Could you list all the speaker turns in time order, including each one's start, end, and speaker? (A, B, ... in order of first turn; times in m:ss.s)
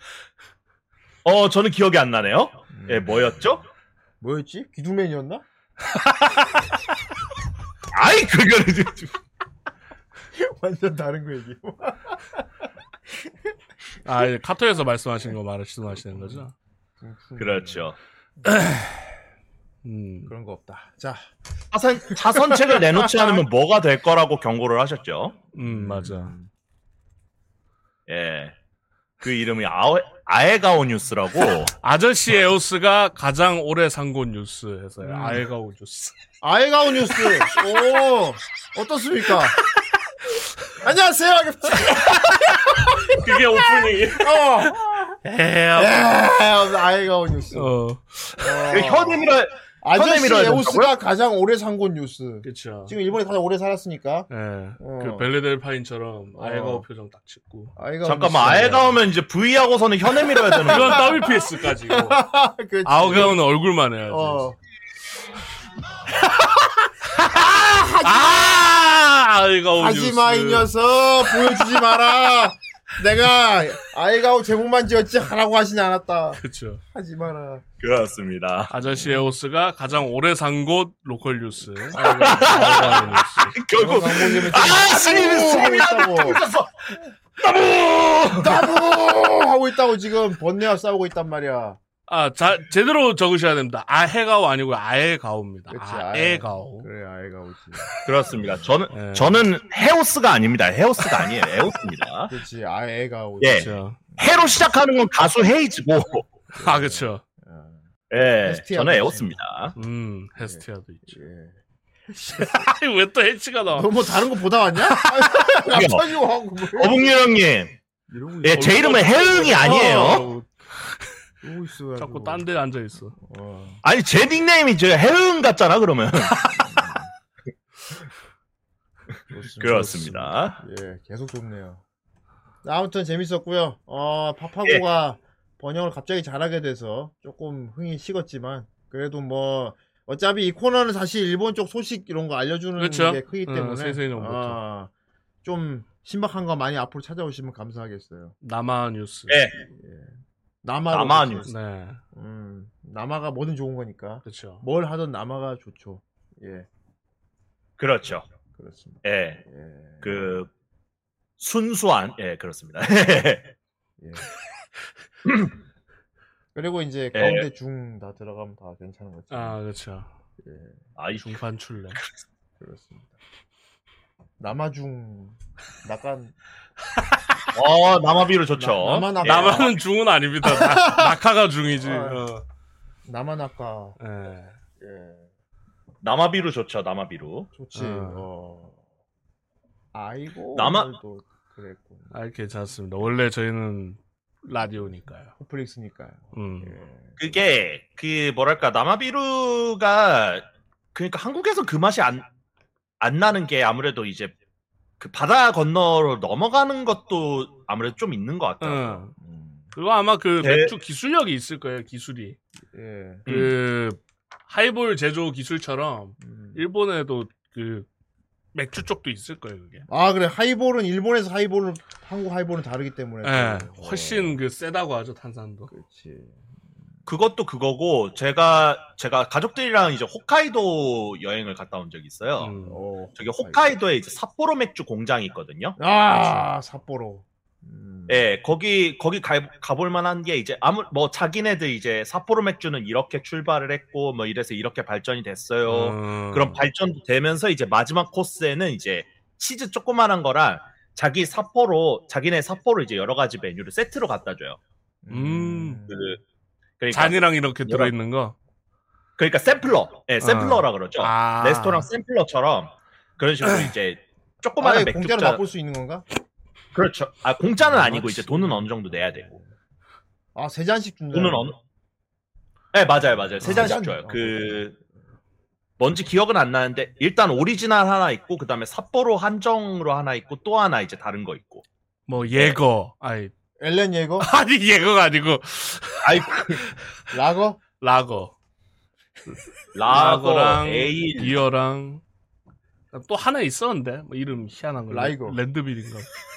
0:01.2-0:03.6 A
0:02.7-0:03.3 B
0:04.2-0:05.4 B
0:07.9-0:09.1 A
0:10.3-0:12.4 B
0:14.0-0:16.5 C
0:16.1-0:16.4 B
0:17.0-0:17.9 B
0:17.4-0:18.0 A
0:18.5-0:19.0 C
0:19.8-0:20.3 C
0:20.3-0:21.3 B
0:21.7-0:25.4 A
0:22.2-0:23.3 B
0:25.6-0:26.5 B
0:25.6-0:26.4 C
0:28.1-0:28.5 A
0:29.2-0:31.7 A
0:31.8-0:36.1 C
0:35.0-0:35.4 B
0:36.4-0:39.6 B
0:40.8-0:42.8 B
0:43.1-0:44.7 C
0:43.8-0:45.2 B
0:45.2-0:46.2 C
0:45.7-0:47.7 B
0:47.5-0:48.6 C
0:48.4-0:49.3 B
0:48.7-0:50.9 A
0:49.8-0:54.3 B
0:52.4-0:53.0 C
0:54.3-0:57.8 C
0:54.8-0:55.3 B
0:56.4-0:56.8 B
0:57.8-0:59.0 B
0:58.0-1:01.2 A
1:00.3-1:03.4 B
1:00.6-1:02.2 C
1:02.8-1:04.5 C
1:04.1-1:04.6 B
1:07.2-1:10.7 C
1:07.8-1:08.2 B
1:09.8-1:16.4 B
1:16.4-1:16.8 C
1:16.9-1:17.6 B
1:17.8-1:18.7 A
1:18.7-1:23.6 C
1:21.9-1:26.4 B
1:22.0-1:28.7 A
1:28.4-1:31.8 B
1:32.1-1:36.9 C
1:35.7-1:38.8 B
1:38.0-1:42.3 A
1:38.9-1:39.4 C
1:42.3-1:44.6 B
1:43.4-1:46.3 A
1:43.6-1:44.0 C
1:46.6-1:49.4 B
1:46.6-1:47.2 C
1:48.1-1:49.7 A
1:49.8-1:51.2 C
1:50.4-1:51.6 B
1:52.1-1:52.7 B
1:52.4-1:53.9 C
1:53.7-1:57.2 B
1:55.7-1:56.0 A
1:56.8-1:57.7 A
1:58.1-2:00.4 B
1:58.4-2:00.3 A
1:58.6-2:00.5 C
2:01.4-2:02.5 B
2:02.0-2:03.2 C
2:03.2-2:03.8 B
2:03.8-2:06.3 A
2:06.6-2:07.1 B
2:09.3-2:11.8 B
2:09.6-2:10.6 A
2:09.6-2:10.2 C
2:12.6-2:24.9 B
2:22.8-2:24.6 C
2:25.4-2:28.4 B
2:28.4-2:29.4 C
2:29.3-2:29.6 A
2:29.7-2:31.5 B
2:30.9-2:31.5 A
2:31.4-2:32.0 C
2:32.1-2:36.7 B
2:34.2-2:34.6 C
2:37.8-2:38.3 A
2:38.5-2:40.4 B
2:39.0-2:39.4 A
2:40.0-2:40.5 A
2:41.4-2:43.5 A
2:44.0-2:44.2 B
2:45.3-2:45.5 A
2:46.6-2:49.6 B
2:47.2-2:47.5 A
2:49.3-2:50.1 C
2:50.4-2:50.8 B
2:51.0-2:51.4 A
2:51.2-2:52.0 C
2:52.6-2:53.2 B
2:54.4-2:56.4 B
2:57.6-2:59.7 A
2:58.6-2:59.8 B
2:59.2-3:02.4 C
3:00.4-3:01.2 B
3:01.8-3:02.2 B
3:03.1-3:04.0 B
3:04.0-3:04.5 C
3:04.8-3:05.3 B
3:06.0-3:07.5 A
3:07.6-3:08.8 B
3:07.8-3:08.3 C
3:09.9-3:12.1 B
3:10.6-3:10.9 A
3:12.1-3:15.3 C
3:15.4-3:17.2 B
3:16.3-3:16.8 C
3:17.2-3:22.3 A
3:23.0-3:24.3 A
3:25.0-3:29.0 A
3:28.6-3:29.1 C
3:29.2-3:29.7 B
3:29.8-3:32.4 C
3:30.4-3:30.7 A
3:32.7-3:33.2 B
3:33.3-3:33.6 A
3:33.3-3:37.9 C
3:36.2-3:36.6 B
3:38.5-3:39.9 C
3:39.9-3:44.4 B
3:43.2-3:45.7 C
3:45.7-3:46.4 B
3:47.1-3:52.5 A
3:52.4-3:52.8 C
3:52.6-3:53.7 B
3:53.2-3:55.8 A
3:55.8-3:58.3 B
3:56.1-3:56.4 C
3:58.1-4:14.6 A
4:05.7-4:06.7 C
4:15.0-4:16.0 B
4:15.1-4:15.8 C
4:15.9-4:16.2 A
4:16.8-4:17.9 A
4:16.9-4:18.4 C
4:19.2-4:25.4 A
4:20.2-4:21.9 C
4:24.6-4:26.0 B
4:26.7-4:29.4 A
4:27.7-4:28.3 C
4:27.8-4:29.5 B
4:30.4-4:31.5 B
4:31.1-4:31.6 A
4:32.7-4:34.8 A
4:33.4-4:34.8 B
4:33.4-4:33.8 C
4:35.8-4:41.6 A
4:42.1-4:43.3 C
4:42.3-4:42.6 A
4:43.6-4:44.3 B
4:44.2-4:46.1 C
4:46.0-4:46.7 A
4:47.1-4:47.6 B
4:47.7-4:48.3 C
4:49.8-4:51.4 A
4:49.9-4:52.0 C
4:52.9-4:56.1 C
4:54.9-4:55.4 B